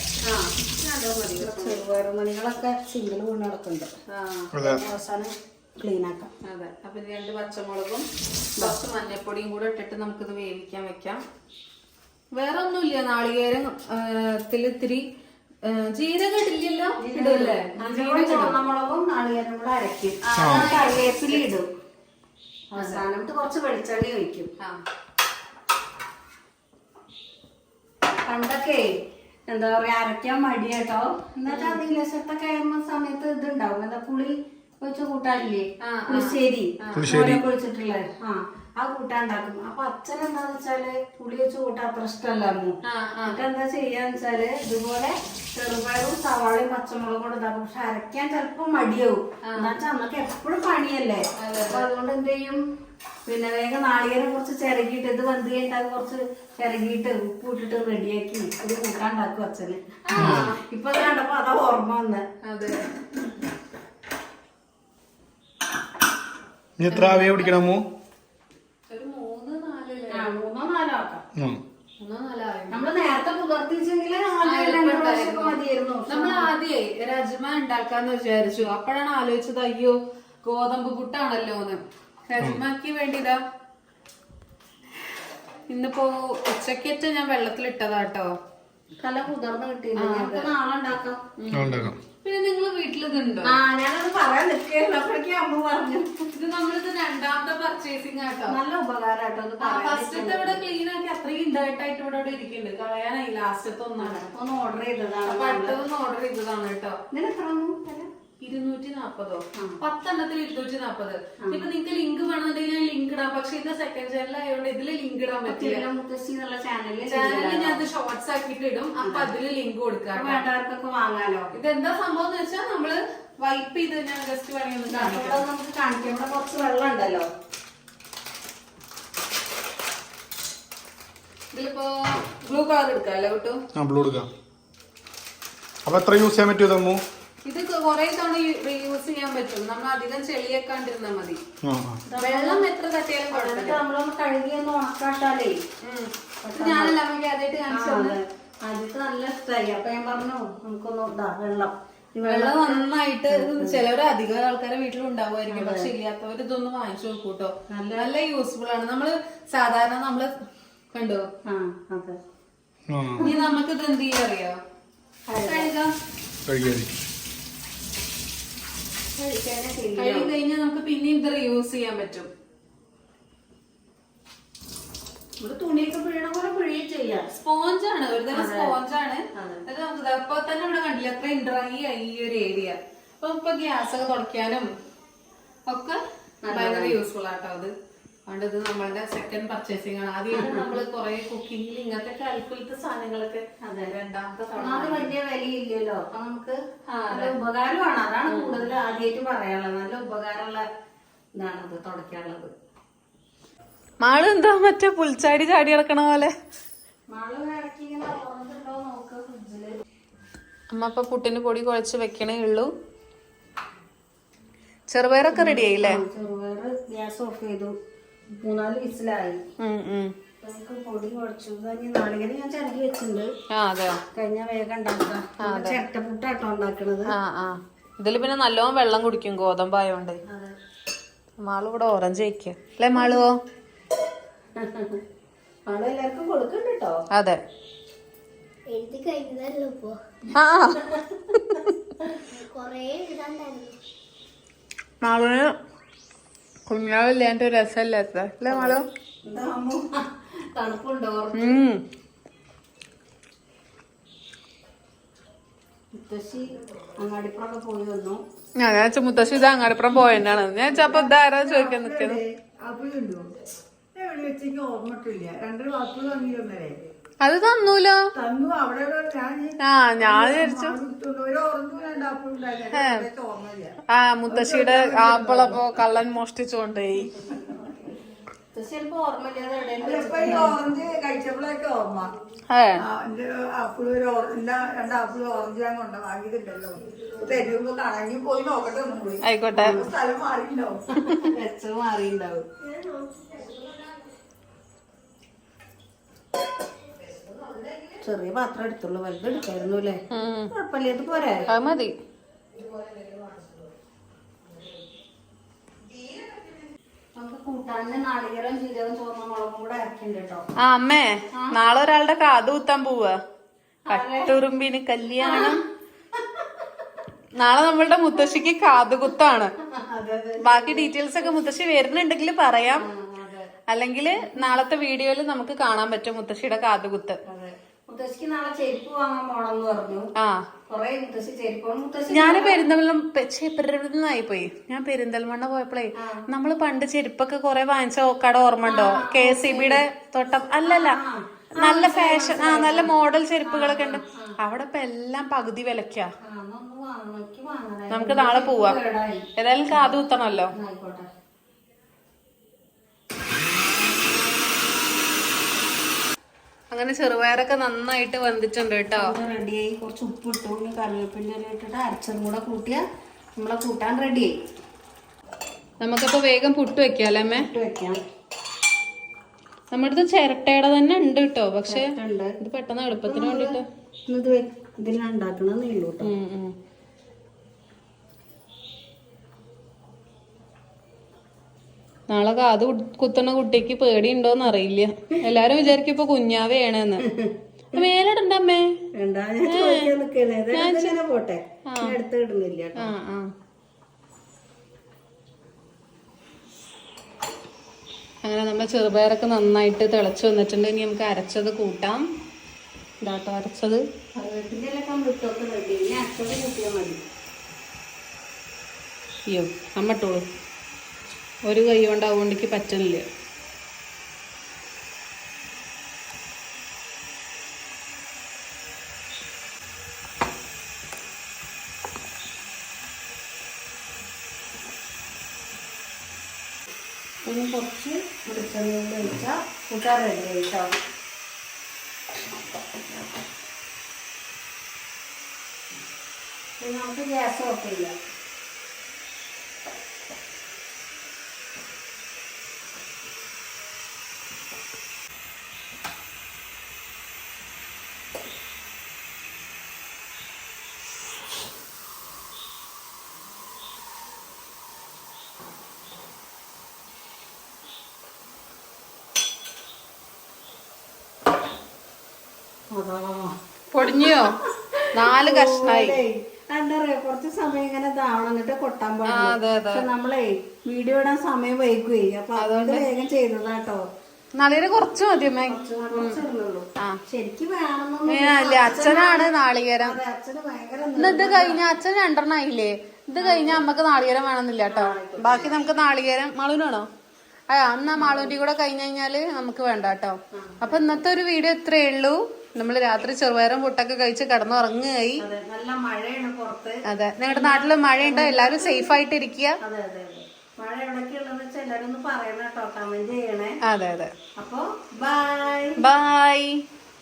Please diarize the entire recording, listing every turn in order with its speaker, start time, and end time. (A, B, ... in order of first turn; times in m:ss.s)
0:00.2-0:01.8 A
0:01.4-0:03.9 B
0:04.1-0:04.6 A
0:04.5-0:04.8 C
0:04.6-0:06.3 B
0:06.4-0:08.0 A
0:08.6-0:11.2 A
0:12.3-0:15.0 A
0:15.6-0:18.5 A
0:17.0-0:21.6 B
0:20.2-0:21.4 A
0:20.4-0:20.7 C
0:22.7-0:24.5 B
0:22.8-0:23.0 A
0:28.3-0:28.9 B
0:29.5-0:42.8 B
0:31.5-0:31.8 A
0:35.8-0:37.1 A
0:36.9-0:37.4 C
0:42.8-0:43.4 A
0:43.3-0:52.6 B
0:49.4-0:49.7 A
0:51.4-0:51.9 A
0:53.2-1:02.2 B
1:00.1-1:00.6 A
1:00.2-1:00.5 C
1:02.4-1:02.8 A
1:06.8-1:07.8 C
1:06.9-1:07.5 A
1:08.9-1:10.3 A
1:10.1-1:11.2 B
1:11.4-1:11.6 C
1:12.0-1:12.9 A
1:12.7-1:16.5 B
1:14.4-1:23.4 A
1:25.7-1:28.3 A
1:29.0-1:31.2 B
1:30.0-1:30.5 A
1:31.4-1:33.6 A
1:31.5-1:32.0 C
1:33.4-1:36.3 B
1:36.3-1:38.6 A
1:38.5-1:40.6 B
1:39.6-1:44.2 A
1:44.0-1:45.8 B
1:45.2-1:47.0 A
1:47.1-1:48.1 B
1:48.4-1:55.8 A
1:55.5-1:57.8 B
1:57.0-2:00.4 A
1:59.0-1:59.3 B
2:00.1-2:01.5 B
2:01.5-2:05.4 A
2:04.9-2:07.2 B
2:11.5-2:13.6 A
2:13.7-2:14.3 C
2:15.8-2:17.0 C
2:17.4-2:21.4 A
2:21.6-2:22.0 C
2:22.1-2:22.6 B
2:22.2-2:23.8 A
2:23.3-2:25.6 B
2:25.8-2:28.2 A
2:26.4-2:27.0 B
2:27.7-2:33.8 B
2:32.2-2:40.3 A
2:35.5-2:35.9 B
2:37.7-2:38.1 B
2:40.9-2:41.2 A
2:41.5-2:42.2 B
2:42.9-2:43.3 C
2:43.2-2:43.5 B
2:43.2-2:44.6 A
2:45.3-2:45.7 B
2:45.4-2:45.9 A
2:46.4-2:46.9 C
2:49.1-2:50.3 B
2:50.0-2:52.3 A
2:55.4-2:57.3 B
2:57.3-3:04.7 A
2:58.3-2:58.8 B
2:59.3-2:59.6 B
3:05.7-3:06.0 A
3:06.4-3:07.0 B
3:06.5-3:07.7 A
3:08.3-3:15.1 A
3:10.3-3:10.7 B
3:13.6-3:13.9 B
3:14.6-3:20.6 B
3:16.9-3:17.3 A
3:18.3-3:18.7 A
3:21.4-3:22.5 B
3:24.0-3:26.3 A
3:27.1-3:29.7 B
3:30.7-3:32.7 A
3:34.9-3:36.0 A
3:35.3-3:37.7 B
3:38.4-3:39.4 B
3:39.6-3:40.1 A
3:40.4-3:43.3 B
3:43.5-3:44.0 A
3:44.1-3:47.1 B
3:45.4-3:45.8 A
3:47.1-3:50.2 A
3:50.3-3:50.5 B
3:51.4-3:53.3 A
3:52.9-3:53.2 B
3:54.6-3:55.0 B
3:55.7-3:57.0 B
3:57.1-3:57.4 A
3:58.7-4:00.0 D
4:00.3-4:01.7 A
4:02.4-4:03.8 D
4:05.0-4:05.5 A
4:06.7-4:08.8 A
4:08.5-4:09.8 B
4:10.5-4:11.6 B
4:11.3-4:11.8 A
4:15.9-4:16.4 B
4:17.0-4:18.2 B
4:18.6-4:22.2 A
4:20.7-4:23.3 E
4:23.9-4:26.8 E
4:27.2-4:28.0 A
4:28.1-4:33.8 E
4:29.6-4:30.8 A
4:32.7-4:33.1 A
4:33.9-4:37.1 A
4:34.3-4:35.6 E
4:38.5-4:40.6 B
4:39.8-4:42.1 E
4:42.5-4:42.8 A
4:42.8-4:50.8 E
4:49.2-4:49.8 A
4:49.5-4:49.9 B
4:51.0-4:52.4 B
4:52.6-4:53.7 D
4:58.0-5:00.0 B
5:00.1-5:00.5 A
5:00.5-5:01.5 B
5:01.5-5:01.9 A
5:07.2-5:10.4 B
5:10.6-5:13.1 A
5:13.9-5:14.4 B
5:13.9-5:15.6 A
5:15.2-5:15.6 B
5:17.4-5:19.5 A
5:19.8-5:21.3 B
5:20.4-5:22.9 A
5:22.7-5:23.5 B
5:23.7-5:27.2 A
5:24.1-5:24.6 B
5:27.3-5:30.0 B
5:30.2-5:30.4 A
5:30.7-5:32.6 B
5:32.1-5:41.0 A
5:38.6-5:39.8 B
5:40.6-5:42.9 B
5:41.6-5:46.1 A
5:43.4-5:44.3 B
5:46.2-5:50.0 B
5:47.9-5:48.8 A
5:49.4-5:50.5 A
5:50.6-5:51.1 B
5:56.7-5:59.1 A
5:58.9-6:02.8 B
6:03.4-6:04.3 B
6:05.8-6:07.5 A
6:07.4-6:08.0 B
6:09.7-6:13.6 A
6:11.6-6:12.4 B
6:13.0-6:13.6 B
6:14.1-6:16.1 B
6:16.0-6:16.5 A
6:22.1-6:27.0 A
6:27.2-6:27.8 B
6:27.7-6:28.7 A
6:29.0-6:32.9 B
6:29.4-6:29.9 A
6:30.5-6:31.0 A
6:31.7-6:32.0 A
6:32.8-6:33.3 A
6:38.2-6:42.0 A
6:43.0-6:43.8 A
6:44.2-6:47.0 B
6:49.3-6:50.2 A
6:51.4-6:53.0 A
7:07.2-7:10.7 B
7:16.6-7:17.9 B
7:42.7-7:43.3 B
7:43.7-7:44.4 A
7:43.9-7:53.8 B
7:44.9-7:46.0 A
7:49.0-7:49.9 A
7:52.4-7:52.9 A
7:54.3-7:56.2 A
7:55.5-8:01.6 B
7:58.1-8:00.0 A
8:01.0-8:06.8 A
8:03.2-8:03.6 B
8:04.7-8:05.6 B
8:07.5-8:15.2 A
8:07.9-8:08.3 B
8:10.4-8:11.0 B
8:15.2-8:19.0 B
8:16.8-8:19.5 A
8:19.6-8:23.6 B
8:23.6-8:24.1 A
8:24.4-8:25.8 B
8:25.8-8:26.6 A